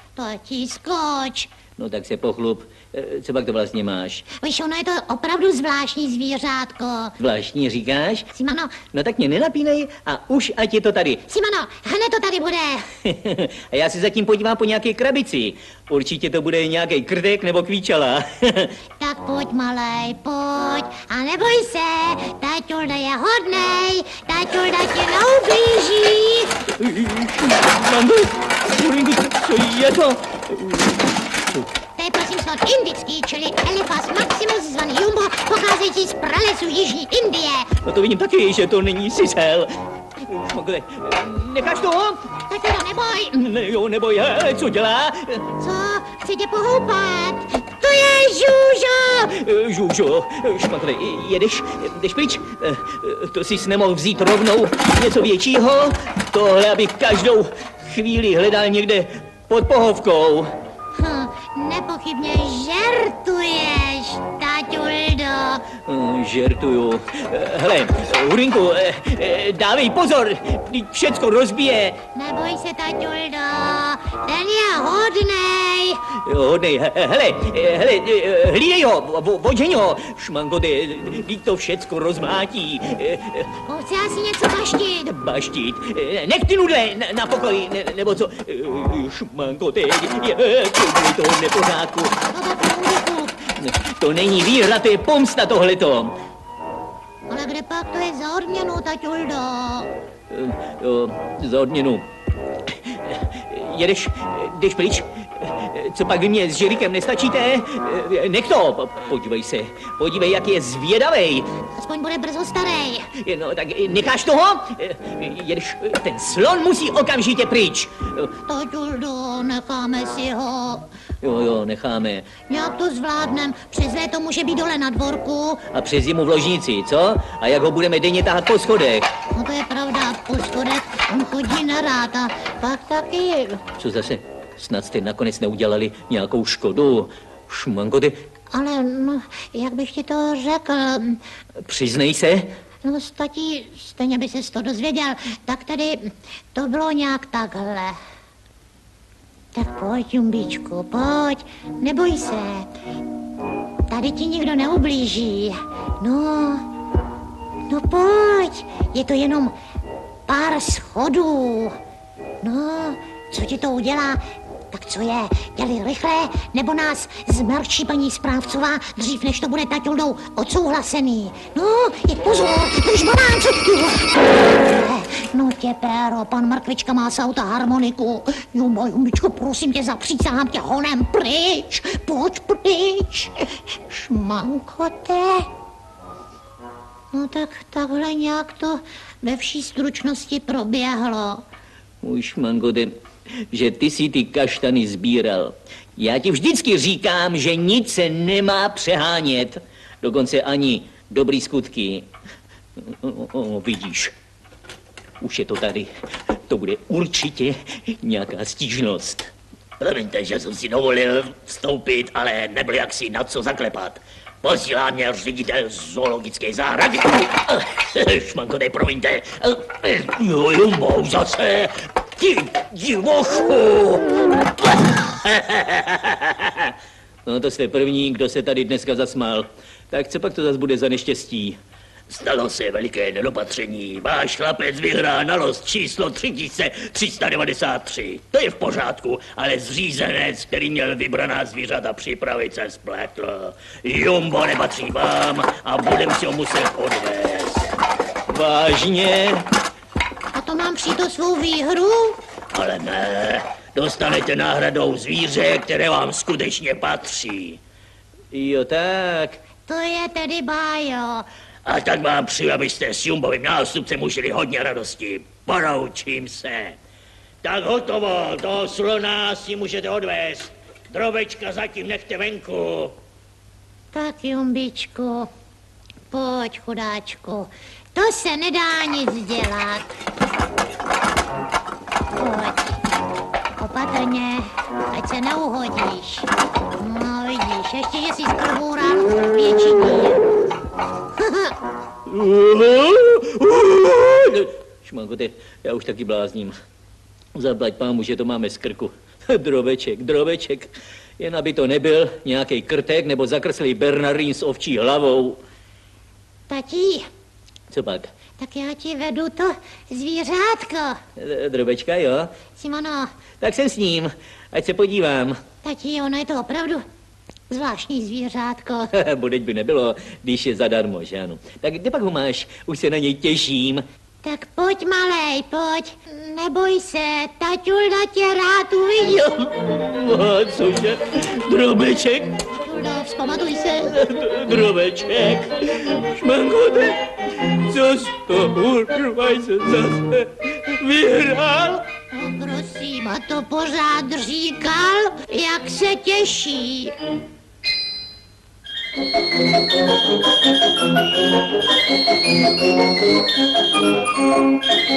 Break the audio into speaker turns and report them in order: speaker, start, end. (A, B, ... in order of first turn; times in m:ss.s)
0:00.2-0:01.5 A
0:01.8-0:04.3 B
0:04.3-0:07.2 A
0:07.2-0:08.3 B
0:08.3-0:08.8 A
0:08.9-0:11.3 B
0:11.3-0:12.9 A
0:13.0-0:18.7 B
0:19.0-0:26.6 A
0:26.8-0:31.6 B
0:32.0-0:37.8 A
0:37.8-0:42.3 B
0:42.5-0:43.4 A
0:43.3-0:45.5 B
0:45.6-0:49.2 A
0:49.0-1:00.5 B
1:01.0-1:05.7 A
1:05.8-1:12.0 B
1:12.1-1:16.1 A
1:16.1-1:23.5 B
1:23.7-1:25.1 A
1:25.0-1:32.2 B
1:32.3-1:33.4 A
1:33.4-1:36.2 B
1:37.3-1:39.9 A
1:40.3-1:42.1 B
1:42.7-1:51.5 B
1:51.8-1:53.1 A
1:53.1-1:58.3 B
1:58.4-2:00.9 A
2:01.2-2:02.3 B
2:02.5-2:05.7 A
2:05.7-2:09.1 B
2:09.3-2:13.6 A
2:13.8-2:18.2 B
2:18.5-2:21.2 A
2:21.6-2:22.5 B
2:22.8-2:28.0 A
2:29.5-2:32.7 A
2:33.9-2:36.7 A
2:37.7-2:39.6 A
2:40.3-2:41.8 A
2:42.4-3:05.5 A
3:07.1-3:11.4 A
3:12.0-3:12.9 B
3:13.5-3:22.1 B
3:22.8-3:24.1 B
3:25.2-3:25.9 B
3:26.5-3:29.3 B
3:29.8-3:37.3 C
3:38.0-3:44.1 C
3:38.1-3:39.9 B
3:40.5-3:41.1 B
3:42.6-3:43.0 B
3:45.2-3:46.2 C
3:47.2-3:51.6 B
3:52.1-4:07.7 C
4:08.3-4:09.5 B
4:10.3-4:12.2 A
4:12.5-4:17.6 C
4:18.3-4:19.4 B
4:19.7-4:21.3 A
4:21.6-4:26.8 C
4:27.4-4:33.0 C
4:33.9-4:35.3 A
4:36.1-4:39.9 A
4:42.1-4:42.8 A
4:43.6-4:50.2 A
4:51.2-4:51.5 A
4:52.0-4:56.5 B
4:57.3-5:05.4 B
5:06.5-5:07.0 A
5:07.7-5:08.1 B
5:08.4-5:11.0 A
5:11.2-5:12.3 B
5:12.6-5:13.1 A
5:13.4-5:15.4 B
5:15.6-5:16.8 A
5:17.5-5:18.9 A
5:18.9-5:23.8 B
5:24.2-5:29.3 A
5:29.2-5:32.4 B
5:32.5-5:33.9 A
5:33.9-5:41.8 B
5:42.1-5:47.0 A